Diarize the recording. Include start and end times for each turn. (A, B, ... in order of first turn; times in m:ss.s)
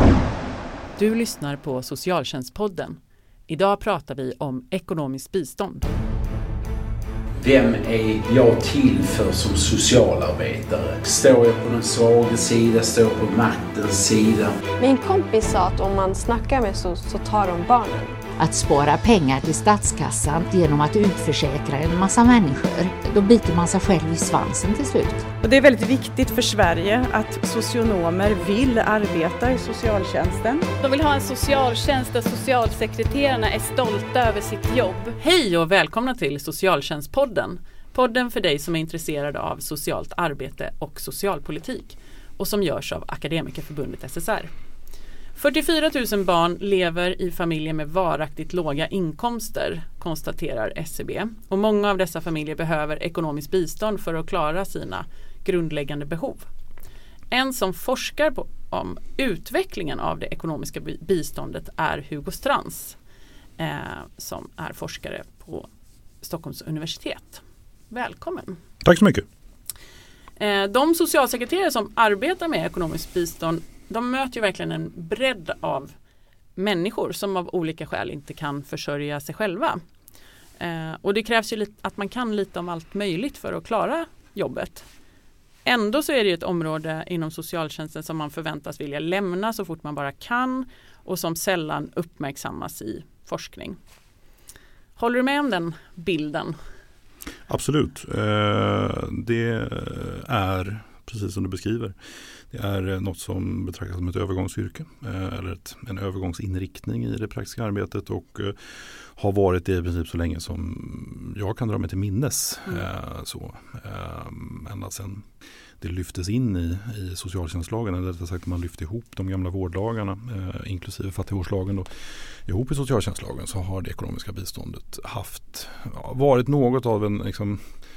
0:01.0-0:05.9 A
0:07.4-0:14.6 B
0:14.8-0:18.0 C
0:18.4-0:25.3 D
0:25.4-0:30.7 E
0:30.8-0:35.2 F
0:35.2-0:44.5 A
0:45.3-0:56.4 A
0:57.3-1:03.0 A
1:03.6-1:05.7 A
1:06.2-1:08.6 A
1:08.8-1:09.2 G
1:10.4-1:15.9 A
1:16.6-1:19.8 A
1:20.6-1:24.8 A
1:25.6-1:33.8 A
1:35.0-1:36.6 A
1:37.5-1:41.9 G
1:42.5-1:55.2 G
1:55.8-2:07.6 G